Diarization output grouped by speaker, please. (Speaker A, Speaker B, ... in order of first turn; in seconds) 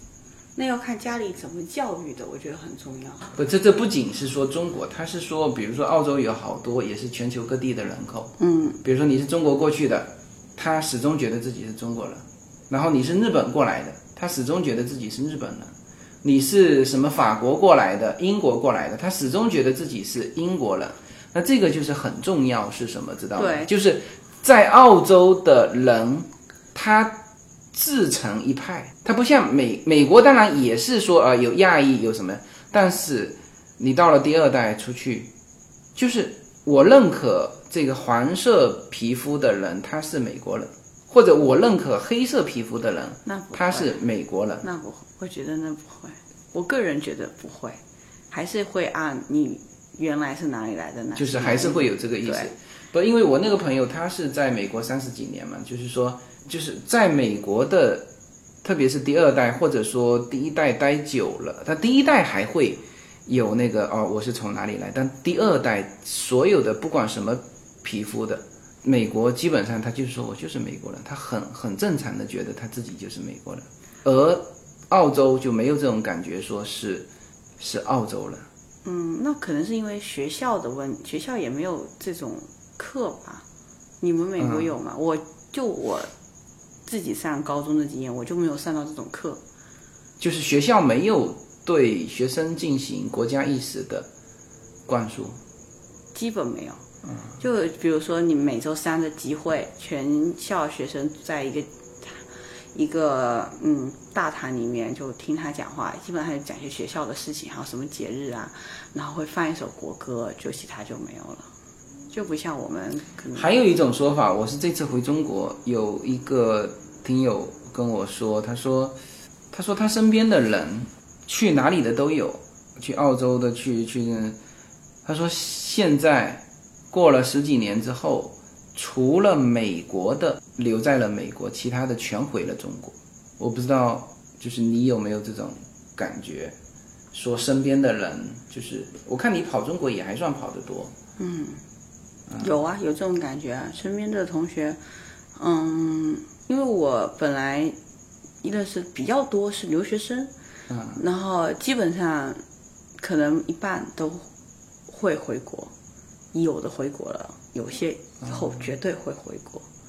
Speaker A: 0.6-3.3, 8.4-8.8, 23.4-23.7, 43.3-44.0, 44.6-47.8, 48.3-52.5, 78.8-83.4, 84.0-86.1, 86.9-89.4, 96.1-96.8, 97.4-102.2, 102.7-111.5, 112.1-113.5, 141.2-141.6, 142.4-144.8, 145.4-147.8, 148.4-150.3, 150.9-152.4, 153.0-154.3, 154.9-155.7, 156.3-159.7
Speaker B: 3.3-27.2, 27.7-35.3, 36.0-44.6, 51.2-58.1, 58.6-77.1, 77.6-78.5, 84.4-84.7, 90.2-94.1, 94.9-95.4, 113.3-119.0, 119.5-124.4, 125.0-136.6, 137.1-140.9